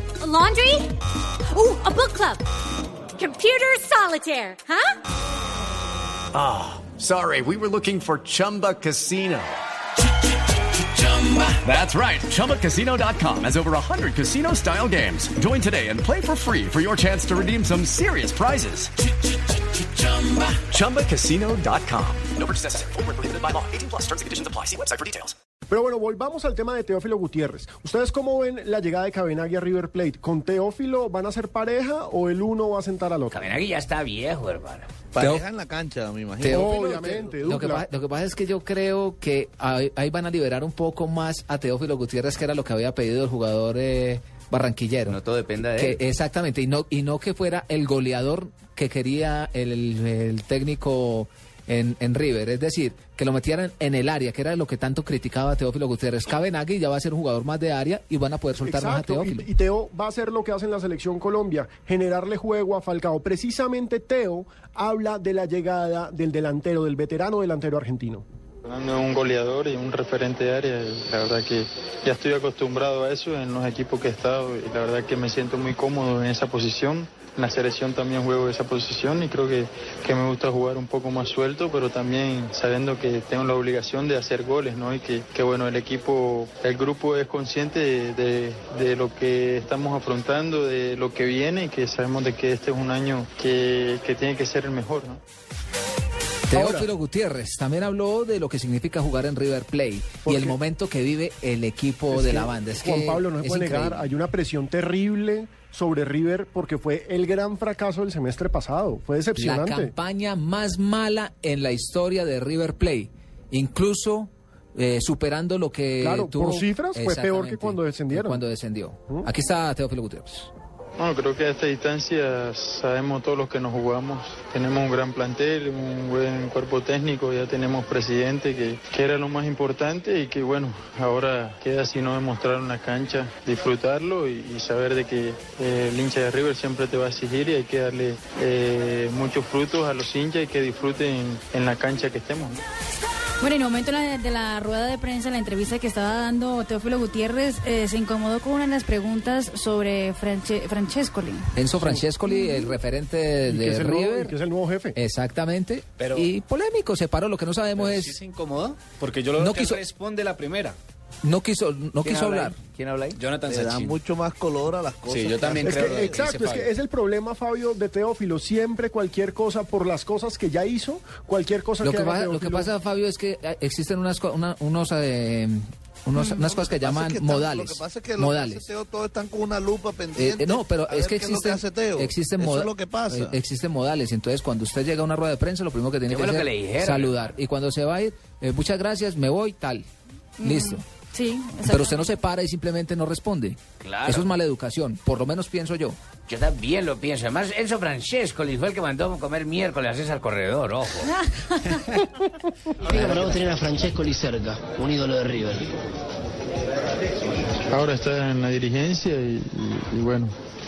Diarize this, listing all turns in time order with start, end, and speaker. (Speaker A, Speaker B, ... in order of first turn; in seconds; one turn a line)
Speaker A: 0.2-0.9
Speaker A: 1.5-2.4
Speaker A: 3.2-4.9
Speaker B: 6.3-9.5
Speaker B: 11.6-18.9
Speaker B: 20.0-25.3
Speaker C: 25.7-33.4
Speaker D: 33.3-34.9
Speaker E: 35.1-37.4
Speaker F: 35.2-35.5
Speaker F: 36.4-36.7
Speaker C: 36.5-37.9
Speaker F: 37.4-59.5
Speaker D: 45.1-46.0
Speaker C: 58.6-68.2
Speaker G: 68.6-95.2
Speaker F: 96.5-104.1
Speaker C: 96.5-96.9
Speaker C: 100.2-100.6
Speaker C: 102.1-109.9
Speaker F: 109.4-120.5
Speaker C: 116.0-118.4
Speaker G: 121.0-142.6
Speaker H: 143.4-151.4
Speaker F: 151.6-154.3
Speaker H: 152.2-152.7
Speaker C: 153.4-155.0
Speaker F: 154.9-158.2
Speaker I: 156.0-156.3
Speaker I: 157.8-160.8
Speaker F: 159.4-159.8
Speaker F: 161.2-162.6
Speaker D: 162.0-163.2
Speaker I: 163.1-164.0
Speaker E: 163.4-166.2
Speaker I: 165.1-166.7
Speaker C: 165.6-172.7
Speaker F: 171.8-178.7
Speaker E: 176.4-183.4
Speaker F: 180.2-189.8
Speaker D: 186.1-187.1
Speaker F: 190.4-190.8
Speaker H: 190.4-192.1
Speaker F: 191.6-196.0
Speaker D: 193.8-194.2
Speaker D: 196.3-201.1
Speaker H: 201.3-201.8
Speaker J: 202.9-205.6
Speaker H: 202.9-203.2
Speaker D: 203.0-203.4
Speaker G: 207.7-210.3